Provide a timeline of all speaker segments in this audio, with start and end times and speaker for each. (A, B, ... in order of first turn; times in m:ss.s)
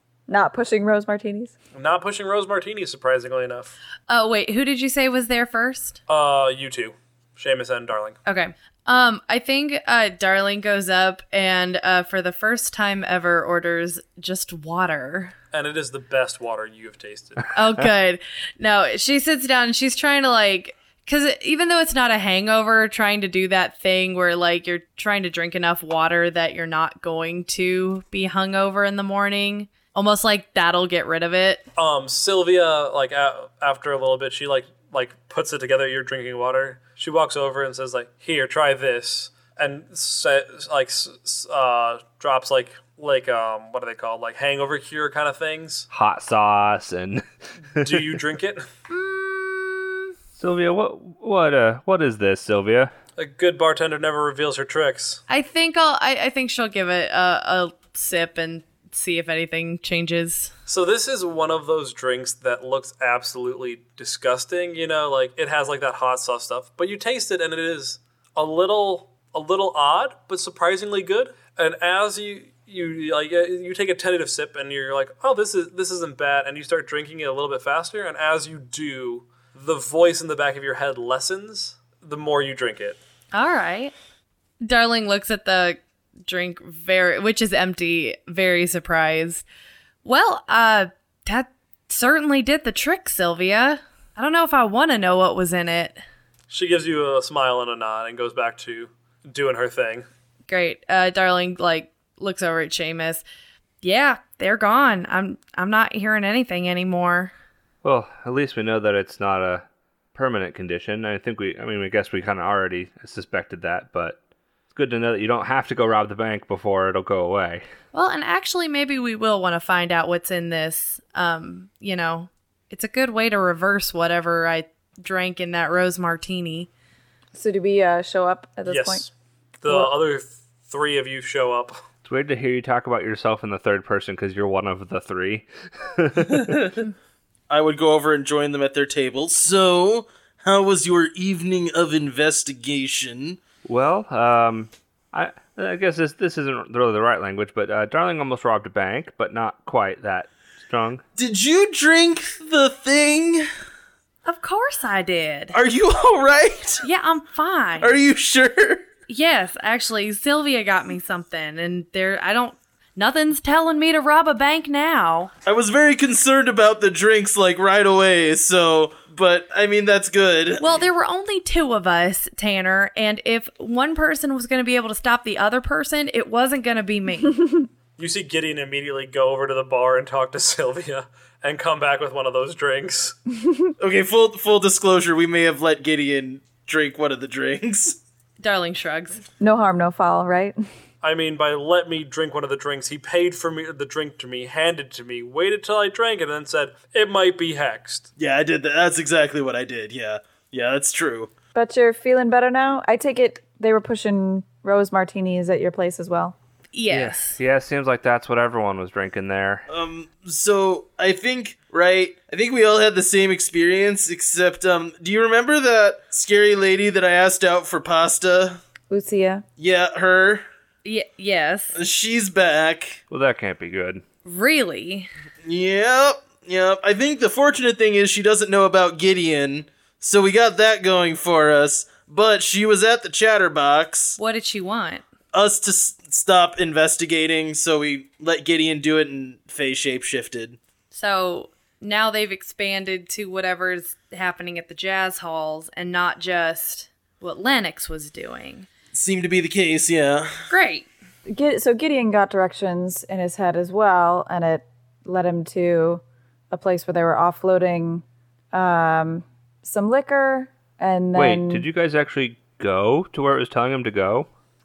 0:00.3-0:01.5 A
0:01.7-0:03.8 B
0:04.1-0:06.0 C
0:06.1-0:08.2 B
0:08.3-0:15.3 C
0:15.5-0:17.5 B
0:17.5-0:31.6 C
0:31.8-0:45.9 B
0:45.9-0:48.1 D
0:47.8-0:48.6 B
0:48.9-0:50.1 C
0:50.4-0:52.9 D
0:53.2-0:55.2 B
0:55.3-1:00.5 C
1:00.7-1:23.0 B
1:23.3-1:23.9 C
1:24.6-1:29.4 C
1:30.0-1:36.0 C
1:36.5-1:40.1 B
1:40.5-1:43.2 C
1:43.8-1:47.3 C
1:47.8-1:54.2 D
1:54.7-1:57.6 D
1:57.9-2:06.7 C
2:07.3-2:09.1 A
2:08.7-2:09.1 B
2:09.6-2:11.8 B
2:12.0-2:16.6 D
2:16.3-2:16.8 E
2:17.5-2:23.4 E
2:23.6-2:31.0 D
2:31.2-2:33.5 E
2:34.2-2:35.6 C
2:35.5-2:36.8 E
2:36.8-2:38.0 C
2:37.8-2:38.8 E
2:39.1-2:45.3 C
2:45.5-2:50.6 E
2:50.6-2:57.5 C
2:58.0-3:03.2 B
3:03.8-3:08.0 E
3:08.4-3:09.2 C
3:09.4-3:10.6 A
3:11.0-3:18.1 B
3:18.2-3:21.3 E
3:21.6-3:26.4 A
3:26.7-3:27.4 C
3:26.9-3:29.7 D
3:29.7-3:38.6 E
3:38.9-3:39.4 A
3:39.6-3:40.4 E
3:40.8-3:41.8 C
3:41.8-3:43.0 E
3:43.1-3:44.0 D
3:44.2-3:45.1 C
3:45.4-3:54.2 E
3:54.2-3:55.0 C
3:55.3-4:00.6 E
4:00.9-4:08.7 C
4:08.9-4:10.4 E
4:10.5-4:10.9 C
4:11.3-4:21.6 A
4:21.2-4:24.3 D